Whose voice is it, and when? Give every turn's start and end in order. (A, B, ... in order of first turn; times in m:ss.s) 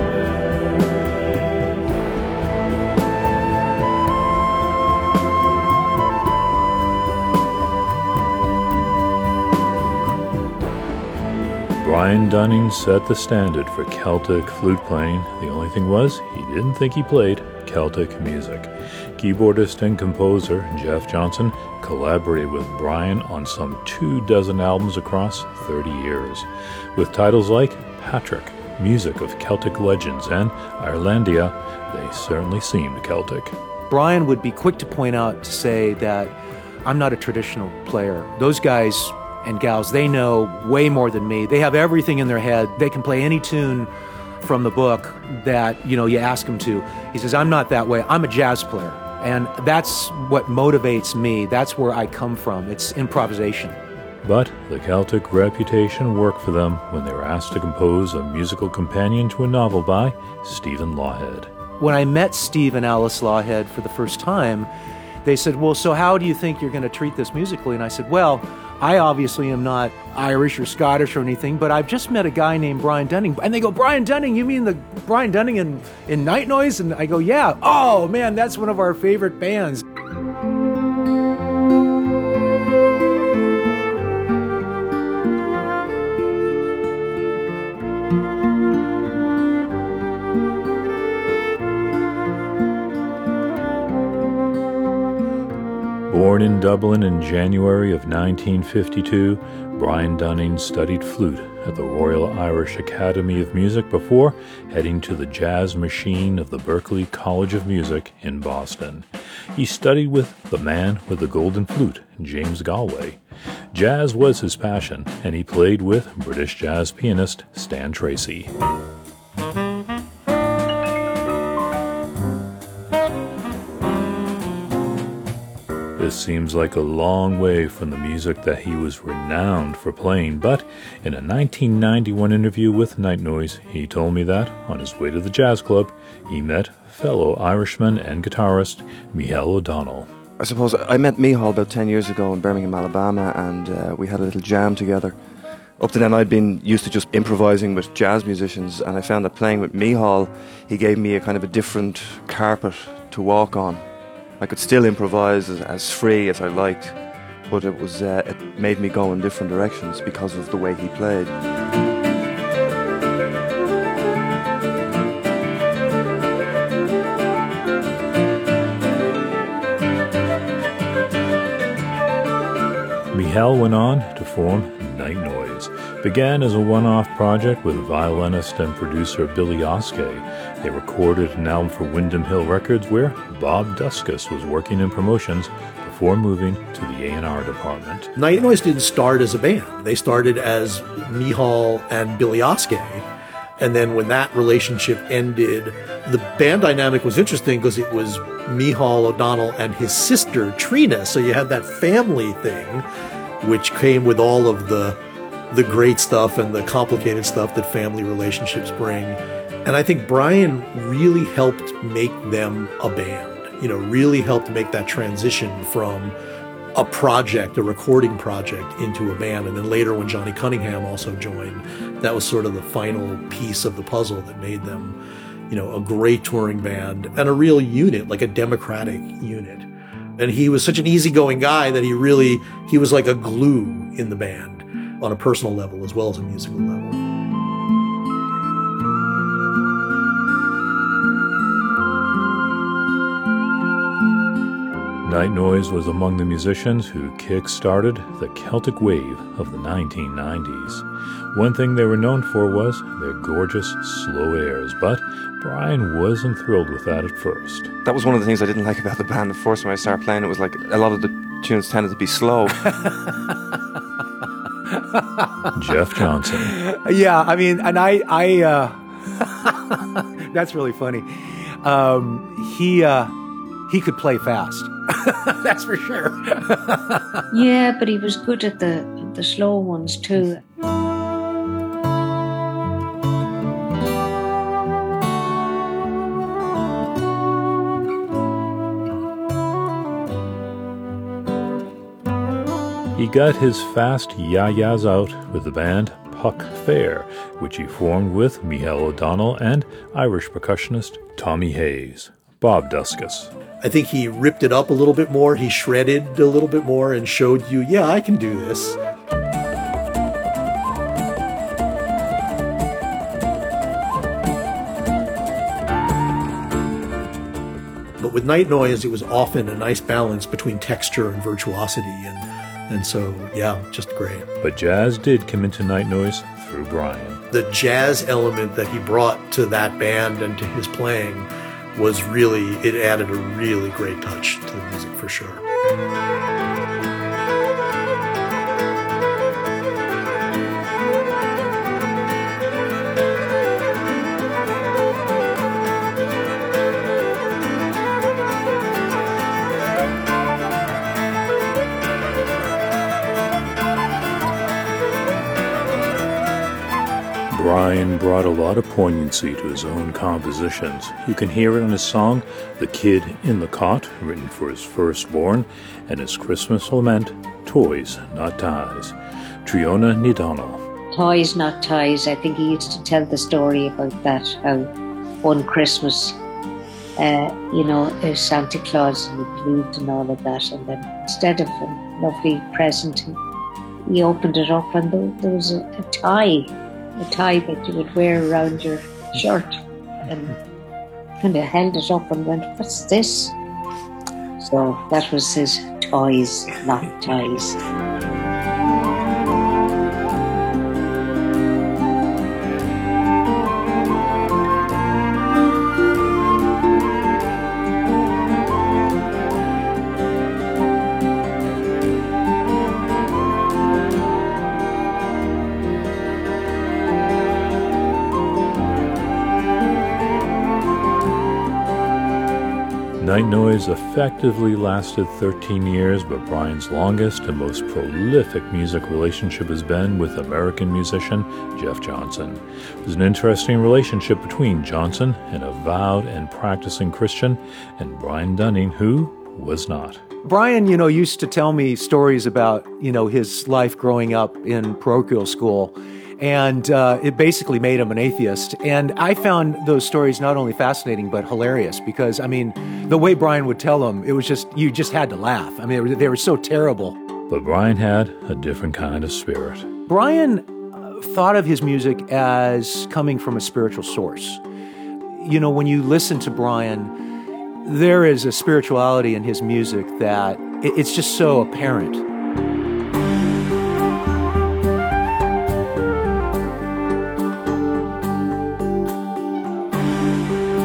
0:11.8-0:33.6 A
0:33.9-0:53.8 B
0:54.2-1:01.5 A
1:01.8-1:04.7 B
1:05.2-1:19.8 B
1:36.1-1:53.2 A
1:53.7-1:58.5 A
2:06.0-2:20.1 A
2:20.4-2:25.2 C
2:25.8-2:33.9 C
2:34.4-2:41.4 C
2:53.1-3:08.1 A
3:08.2-3:13.0 D
3:13.6-3:22.8 D
3:23.4-3:25.0 D
3:25.5-3:36.2 D
3:36.8-3:45.0 D
3:45.5-3:57.0 D
4:05.0-4:17.7 A
4:17.8-4:22.7 C
4:22.8-4:23.4 B
4:24.7-4:25.5 B
4:25.5-4:26.5 A
4:26.4-4:33.1 B
4:33.7-4:37.2 B
4:37.3-4:40.4 E
4:53.0-5:03.3 A
5:03.6-5:08.8 D
5:18.0-5:24.3 D
5:24.4-5:27.2 A
5:27.3-5:35.4 D
5:57.3-6:10.6 A
6:10.9-6:14.7 E
6:15.2-6:16.2 E
6:17.0-6:23.2 E
6:23.9-6:29.5 E
6:30.0-6:30.4 E
6:31.2-6:33.4 E
6:34.4-6:37.6 E
7:03.0-7:20.0 A
7:20.2-7:37.0 B
7:37.3-7:39.7 A
7:39.9-7:44.4 B
7:45.1-7:46.9 B
7:47.6-7:52.0 B